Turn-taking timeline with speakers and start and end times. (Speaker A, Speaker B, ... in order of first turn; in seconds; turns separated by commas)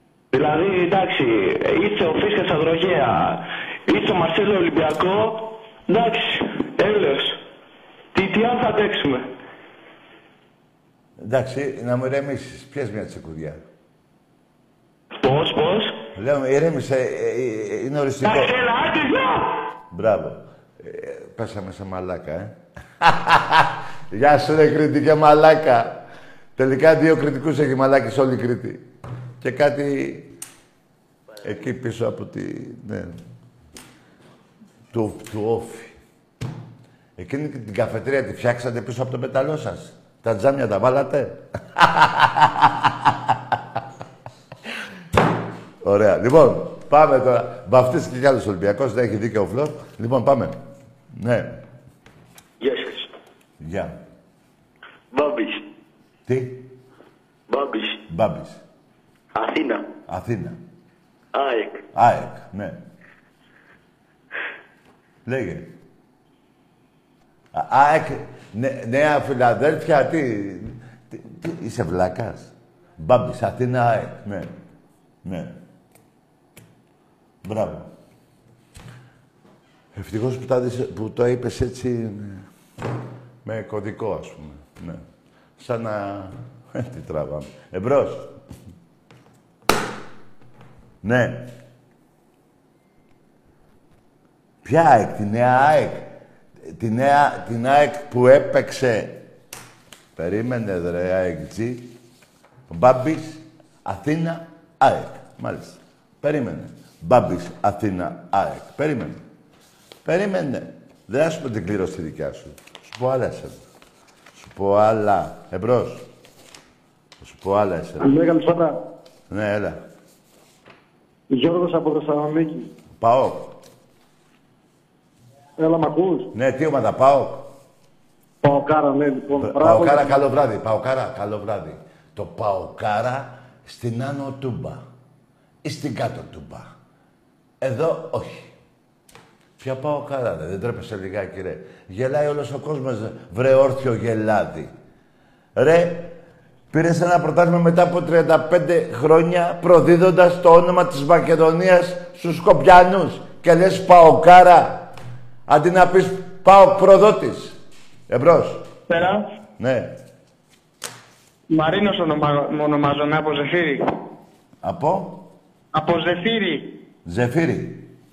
Speaker A: 0.3-7.4, Speaker A: 8.1-9.2, Speaker B: 11.2-13.6, Speaker A: 15.2-16.0, Speaker B: 16.1-18.5, Speaker A: 18.2-19.6, Speaker B: 19.9-26.0, Speaker B: 26.6-28.8, Speaker B: 29.4-30.3, Speaker B: 31.4-33.2, Speaker B: 34.9-36.0, Speaker B: 37.2-43.4, Speaker B: 45.8-50.6, Speaker B: 51.1-51.6, Speaker A: 52.6-53.1, Speaker B: 53.6-54.0, Speaker A: 55.1-55.5, Speaker B: 56.3-56.7, Speaker A: 57.5-57.9, Speaker B: 58.1-58.6, Speaker A: 59.4-59.8, Speaker B: 60.1-60.6, Speaker A: 61.4-61.7, Speaker B: 61.9-62.8, Speaker B: 65.3-65.7, Speaker B: 67.5-74.5, Speaker B: 75.2-75.6, Speaker B: 77.4-77.9, Speaker B: 79.9-82.5, Speaker B: 83.5-85.0, Speaker B: 85.6-88.3, Speaker B: 91.0-91.5, Speaker B: 94.6-96.1, Speaker B: 96.6-99.2, Speaker B: 100.2-102.0, Speaker B: 102.7-109.2, Speaker B: 110.0-113.6, Speaker B: 114.3-116.1, Speaker B: 117.2-118.2, Speaker C: 118.0-118.7, Speaker B: 119.3-119.8, Speaker C: 121.4-122.5, Speaker B: 123.0-123.5, Speaker C: 125.6-126.2, Speaker B: 126.3-127.5, Speaker C: 128.4-130.1, Speaker B: 129.4-134.8, Speaker B: 135.6-136.7, Speaker B: 137.6-138.5, Speaker B: 139.6-144.7, Speaker B: 145.6-146.2, Speaker B: 146.7-154.9, Speaker B: 155.5-158.7, Speaker D: 158.9-159.2, Speaker B: 159.6-159.9, Speaker D: 161.5-163.9, Speaker B: 164.6-165.2, Speaker D: 165.7-166.7, Speaker B: 167.1-167.9